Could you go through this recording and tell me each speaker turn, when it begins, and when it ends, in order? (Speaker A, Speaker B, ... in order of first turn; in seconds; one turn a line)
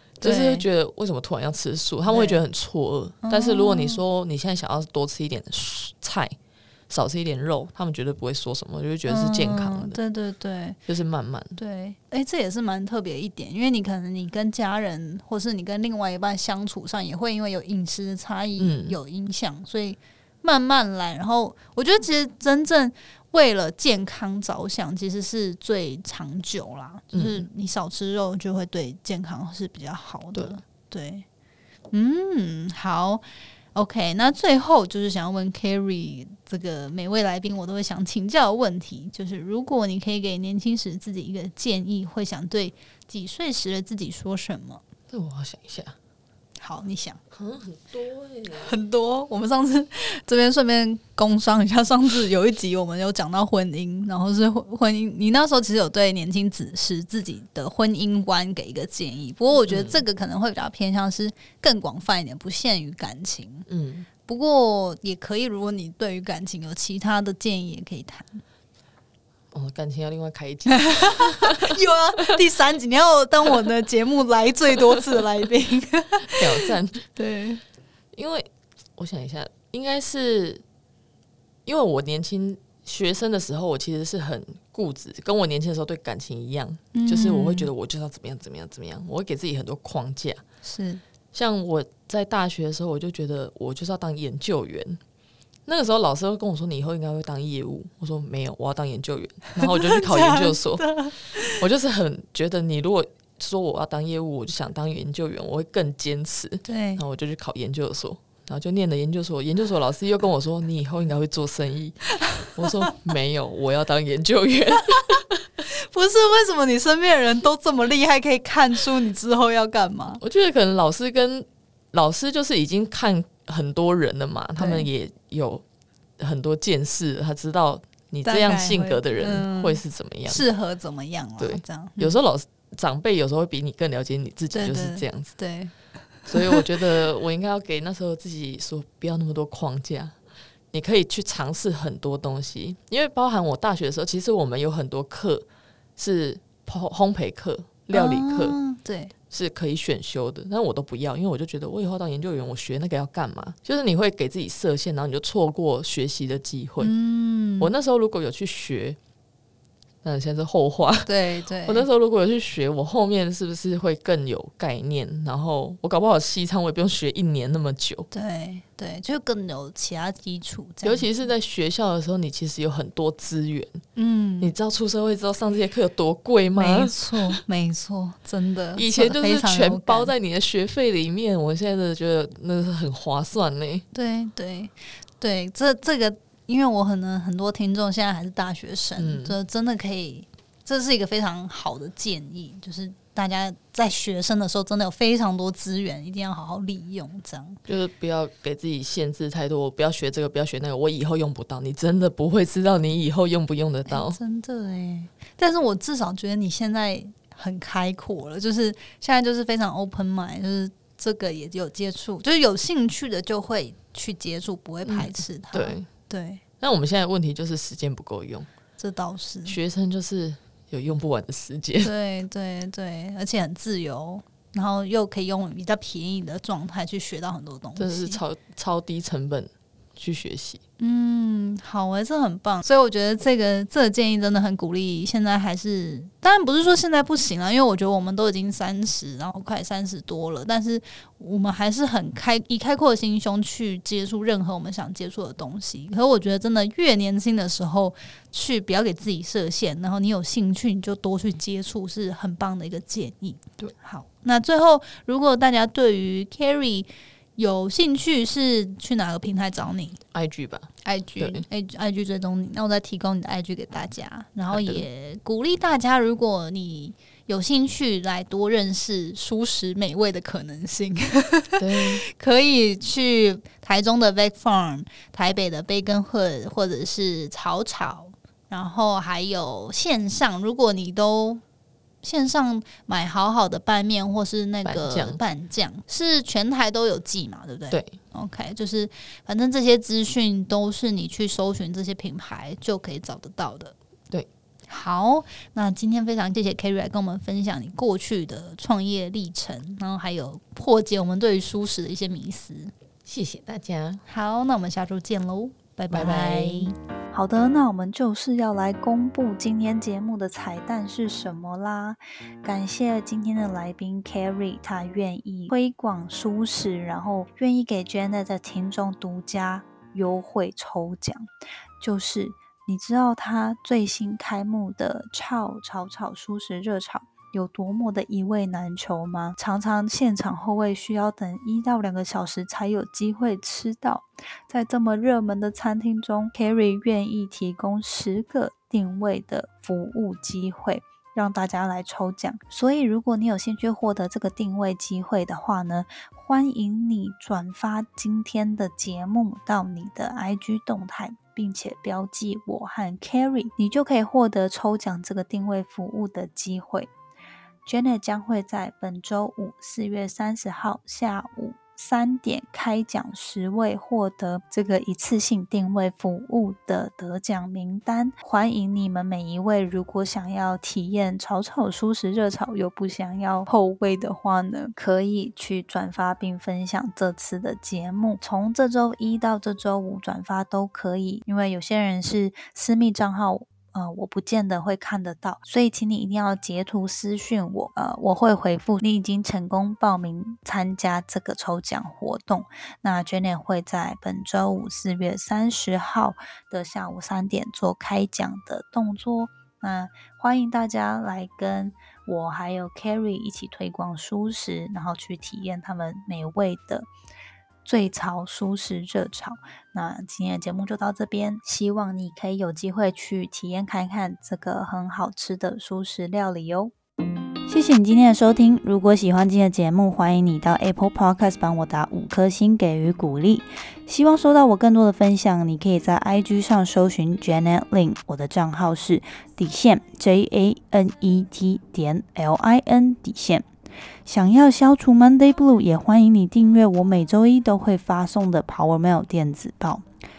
Speaker A: 0.2-0.7
Speaker B: 0.2-6.3
Speaker A: 2.1-2.4
Speaker A: 3.2-4.0
Speaker B: 6.9-10.0
Speaker A: 9.1-10.8
Speaker B: 10.9-11.6
Speaker A: 11.6-31.2
Speaker B: 18.6-19.0
Speaker B: 27.1-27.5
Speaker A: 31.9-33.2
Speaker A: 33.8-44.8
Speaker B: 45.1-46.0
Speaker A: 46.6-47.2
Speaker B: 47.3-48.7
Speaker A: 48.5-63.7
Speaker B: 59.7-60.0
Speaker B: 63.7-64.1
Speaker A: 64.2-68.4
Speaker B: 69.5-71.8
Speaker A: 70.7-77.6
Speaker B: 76.2-77.1
Speaker B: 78.1-80.6
Speaker B: 81.7-90.4
Speaker A: 86.9-87.7
Speaker A: 90.6-91.0
Speaker B: 91.3-95.0
Speaker B: 95.7-115.4
Speaker A: 99.6-101.6
Speaker A: 106.7-107.0
Speaker A: 112.2-112.9
Speaker A: 114.9-120.2
Speaker B: 120.2-125.6
Speaker A: 124.6-124.9
Speaker B: 126.2-130.4
Speaker A: 128.2-132.2
Speaker B: 131.4-135.3
Speaker A: 134.5-136.7
Speaker B: 136.3-140.2
Speaker B: 140.7-145.5
Speaker B: 146.0-148.6
Speaker A: 147.9-149.1
Speaker B: 149.3-156.9
Speaker A: 156.8-157.7
Speaker B: 157.6-159.0
Speaker B: 160.0-161.1
Speaker A: 161.1-161.9
Speaker B: 161.7-168.1
Speaker A: 168.1-171.2
Speaker B: 170.8-173.8
Speaker A: 174.0-174.5
Speaker B: 174.4-177.4
Speaker A: 176.6-180.1
Speaker B: 178.8-183.8
Speaker A: 183.9-197.6
Speaker B: 189.0-189.4
Speaker B: 197.7-204.2
Speaker A: 203.9-216.4
Speaker B: 214.8-215.9
Speaker B: 216.6-218.5
Speaker A: 218.8-219.6
Speaker B: 219.4-221.9
Speaker A: 221.8-228.2
Speaker B: 227.8-230.6
Speaker A: 230.8-260.0
Speaker B: 260.1-261.4
Speaker A: 260.8-281.4
Speaker B: 264.5-264.9
Speaker B: 271.6-272.0
Speaker A: 282.0-293.8
Speaker B: 284.6-285.2
Speaker B: 287.7-288.0
Speaker A: 294.7-302.7
Speaker B: 303.1-304.0
Speaker A: 304.1-306.8
Speaker B: 305.9-306.7
Speaker C: 307.1-321.3
Speaker C: 321.8-356.9
Speaker C: 357.7-406.9
Speaker C: 407.6-416.7
Speaker C: 417.5-433.5
Speaker C: 434.1-439.9